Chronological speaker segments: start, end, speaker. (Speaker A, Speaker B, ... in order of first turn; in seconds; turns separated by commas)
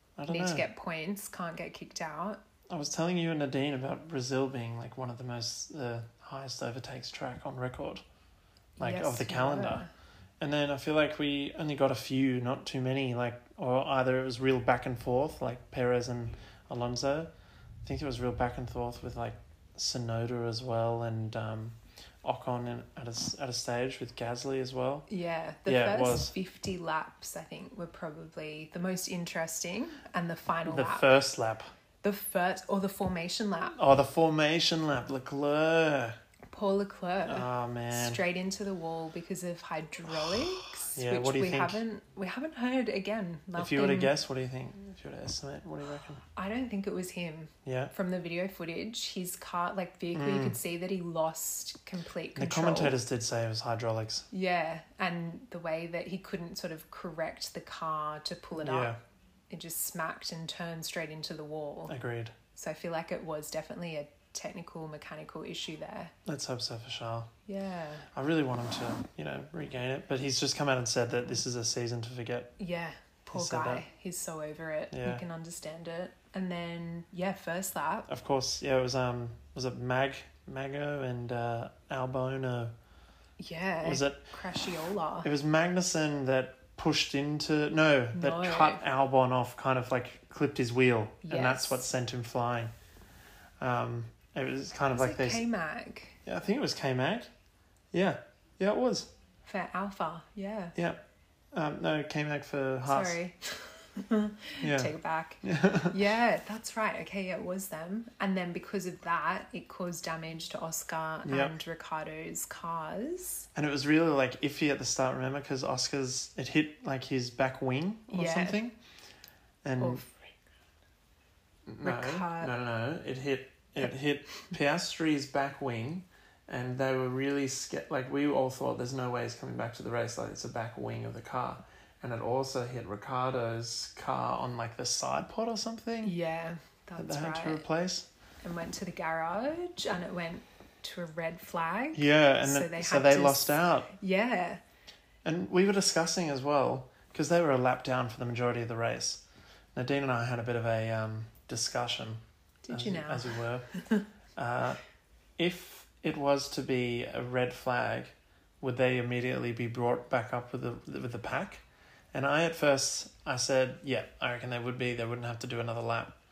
Speaker A: 0.2-0.7, Speaker B: 0.3-2.4, Speaker A: 2.7-8.0, Speaker B: 8.8-9.9, Speaker A: 8.8-9.9, Speaker A: 10.4-17.3, Speaker A: 17.8-25.1, Speaker B: 25.1-31.1, Speaker A: 25.7-26.3, Speaker A: 30.7-31.7, Speaker B: 32.0-33.8, Speaker A: 33.8-36.2, Speaker B: 36.5-44.1, Speaker A: 37.3-38.2, Speaker A: 40.1-41.8, Speaker A: 43.5-46.2, Speaker B: 46.4-53.0, Speaker A: 47.7-47.9, Speaker A: 50.1-50.6, Speaker A: 52.4-54.3, Speaker B: 54.3-58.9, Speaker A: 58.5-59.0, Speaker B: 59.5-62.0, Speaker A: 61.9-62.3, Speaker B: 62.5-66.1, Speaker A: 66.3-67.3, Speaker B: 67.5-68.1, Speaker A: 68.1-72.5, Speaker B: 72.6-78.1, Speaker A: 73.3-73.8, Speaker A: 74.9-75.2, Speaker A: 78.1-82.7, Speaker B: 83.4-85.3, Speaker A: 83.8-84.3, Speaker A: 85.2-92.7, Speaker B: 88.1-88.8, Speaker B: 91.2-91.8, Speaker A: 93.6-95.4, Speaker B: 94.9-96.2, Speaker A: 96.2-97.3, Speaker A: 97.9-99.1, Speaker B: 99.5-100.8, Speaker A: 100.8-101.0, Speaker A: 101.5-103.2, Speaker B: 102.9-113.5, Speaker A: 104.6-104.9, Speaker A: 105.4-106.0, Speaker A: 111.2-111.5, Speaker A: 113.5-118.8, Speaker B: 118.1-118.6, Speaker A: 119.6-120.0, Speaker B: 119.8-120.3, Speaker A: 121.7-136.2, Speaker B: 121.8-122.5, Speaker B: 136.0-137.7, Speaker A: 137.0-138.1, Speaker B: 138.4-144.6, Speaker A: 141.9-143.9, Speaker A: 145.2-149.2, Speaker A: 149.8-153.7, Speaker B: 152.7-154.1, Speaker A: 154.4-154.8, Speaker A: 155.4-166.2